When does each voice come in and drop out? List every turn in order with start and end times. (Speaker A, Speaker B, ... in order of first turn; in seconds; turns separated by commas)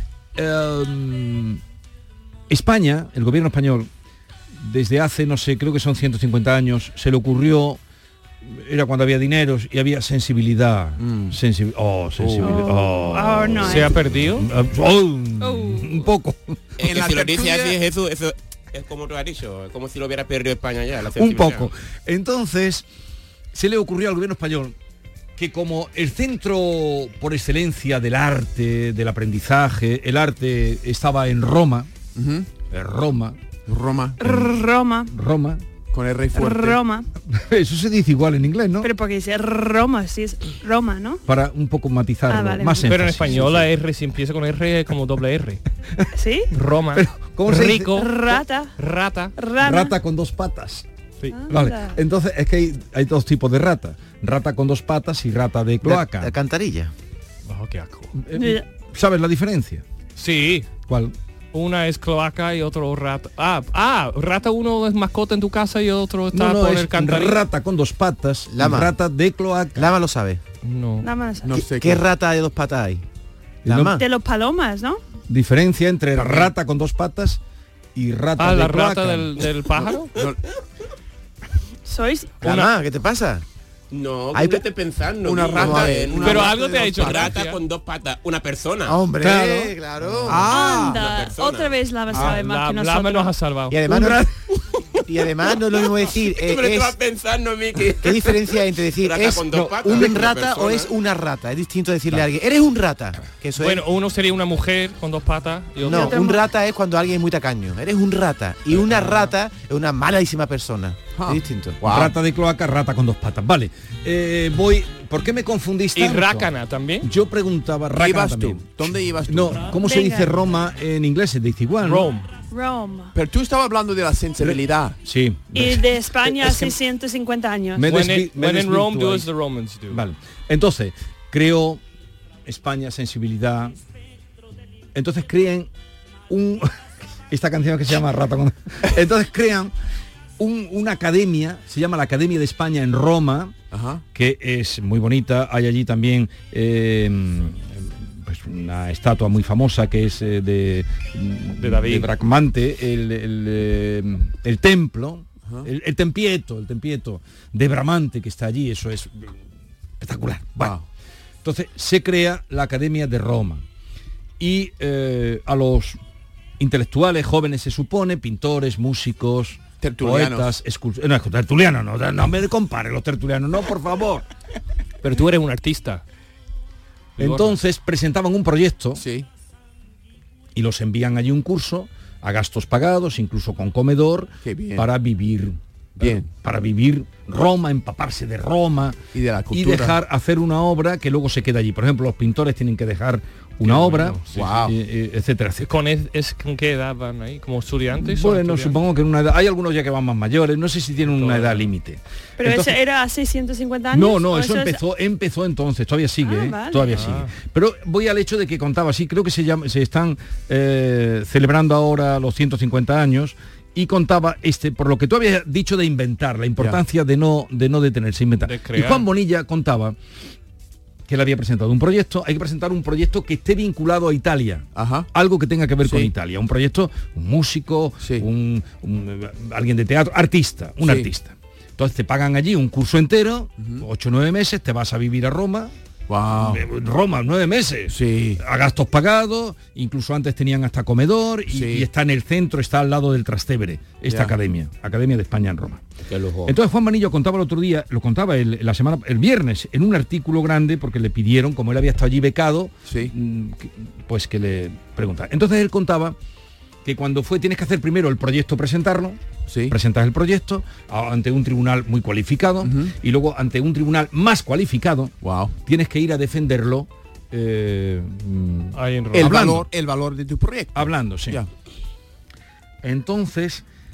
Speaker A: 0.3-1.6, Speaker A: 2.5-3.9, Speaker A: 4.6-7.8, Speaker A: 8.4-16.6, Speaker B: 11.0-11.4, Speaker B: 12.2-12.6, Speaker C: 12.4-13.9, Speaker D: 13.6-14.5, Speaker C: 15.4-15.9, Speaker E: 16.8-21.7, Speaker B: 16.8-17.8, Speaker A: 21.2-22.9, Speaker A: 23.5-24.8, Speaker A: 25.4-31.9, Speaker B: 32.1-32.5, Speaker A: 32.7-33.4, Speaker B: 33.7-34.2, Speaker C: 34.2-35.1, Speaker A: 34.2-34.6, Speaker A: 35.1-35.6, Speaker B: 35.9-36.8, Speaker C: 36.3-37.1, Speaker A: 37.3-38.9, Speaker C: 38.8-41.2, Speaker A: 41.3-43.7, Speaker C: 42.3-42.8, Speaker D: 42.8-45.6, Speaker C: 46.1-46.5, Speaker D: 46.5-49.3, Speaker A: 46.9-48.0, Speaker C: 47.9-48.8, Speaker C: 49.4-50.0, Speaker A: 49.6-50.9, Speaker C: 51.3-52.0, Speaker A: 51.5-56.3, Speaker F: 55.8-56.9, Speaker D: 57.5-58.1, Speaker A: 58.1-59.8, Speaker C: 58.3-58.6, Speaker D: 60.2-60.8, Speaker A: 60.8-61.1, Speaker D: 61.5-67.4, Speaker A: 66.3-70.0, Speaker F: 68.5-68.9, Speaker F: 69.8-70.4, Speaker D: 70.6-71.1, Speaker C: 71.0-71.6, Speaker B: 71.4-72.0, Speaker F: 71.7-73.0, Speaker A: 73.7-74.0, Speaker F: 73.7-74.0, Speaker C: 74.0-75.0, Speaker A: 75.3-77.4, Speaker B: 76.2-76.5, Speaker A: 78.0-79.5, Speaker D: 78.4-80.1, Speaker C: 81.9-82.4, Speaker D: 82.4-82.7, Speaker F: 82.4-83.4, Speaker E: 83.9-89.0, Speaker F: 84.3-84.7, Speaker B: 85.2-87.4, Speaker F: 85.6-86.2, Speaker D: 86.2-87.6, Speaker F: 88.9-90.5, Speaker A: 89.2-89.7, Speaker B: 90.3-91.0, Speaker E: 90.3-91.8, Speaker C: 90.4-93.3, Speaker D: 92.2-93.9, Speaker F: 93.7-94.3, Speaker A: 93.9-94.3, Speaker F: 95.1-97.0, Speaker E: 95.5-100.9, Speaker F: 98.0-103.8, Speaker D: 103.6-106.4, Speaker F: 105.8-111.8, Speaker C: 105.9-106.4, Speaker B: 111.2-112.2, Speaker A: 111.8-116.5, Speaker D: 116.0-117.1, Speaker A: 117.0-122.1, Speaker B: 118.0-119.8, Speaker C: 119.8-120.3, Speaker D: 121.8-122.3, Speaker C: 122.5-123.1, Speaker B: 123.1-125.0, Speaker A: 124.4-125.8, Speaker C: 125.5-127.9, Speaker A: 127.8-129.3, Speaker D: 127.8-130.0, Speaker A: 129.9-131.8, Speaker A: 132.5-133.8, Speaker A: 134.9-135.7, Speaker A: 136.3-136.7, Speaker A: 137.3-139.7, Speaker A: 140.4-143.5, Speaker B: 143.7-144.0, Speaker A: 144.2-159.4, Speaker D: 151.6-152.1, Speaker A: 160.0-160.8, Speaker B: 160.6-160.8, Speaker A: 161.4-163.6, Speaker A: 164.4-166.0, Speaker A: 166.6-174.2, Speaker B: 169.8-170.5, Speaker D: 175.0-176.0, Speaker D: 177.2-177.6, Speaker A: 177.2-179.0, Speaker B: 179.0-179.3, Speaker A: 180.6-189.0, Speaker B: 184.4-184.9, Speaker B: 186.0-186.3, Speaker B: 189.1-190.0, Speaker A: 189.5-195.7, Speaker D: 193.6-194.4, Speaker B: 194.3-194.8, Speaker D: 195.6-198.8, Speaker A: 198.0-202.8, Speaker D: 201.0-201.7, Speaker C: 202.4-204.8, Speaker A: 203.9-220.0, Speaker C: 206.2-207.0, Speaker D: 206.9-207.4, Speaker D: 218.4-219.1, Speaker A: 221.1-235.7, Speaker B: 224.8-225.1, Speaker B: 225.8-226.1, Speaker B: 228.0-228.3, Speaker B: 230.8-231.1, Speaker B: 233.6-233.9, Speaker B: 236.1-236.6, Speaker A: 236.4-245.8, Speaker B: 237.9-238.4, Speaker B: 241.5-241.9, Speaker B: 244.1-244.3, Speaker E: 246.1-246.6, Speaker A: 246.5-256.2, Speaker B: 252.9-253.1, Speaker A: 256.9-259.2, Speaker B: 259.5-259.8, Speaker A: 259.7-265.1, Speaker B: 262.6-262.9, Speaker B: 265.2-265.5, Speaker A: 265.7-269.7, Speaker D: 268.7-269.5, Speaker B: 269.1-271.5, Speaker A: 270.7-271.4, Speaker A: 272.8-273.6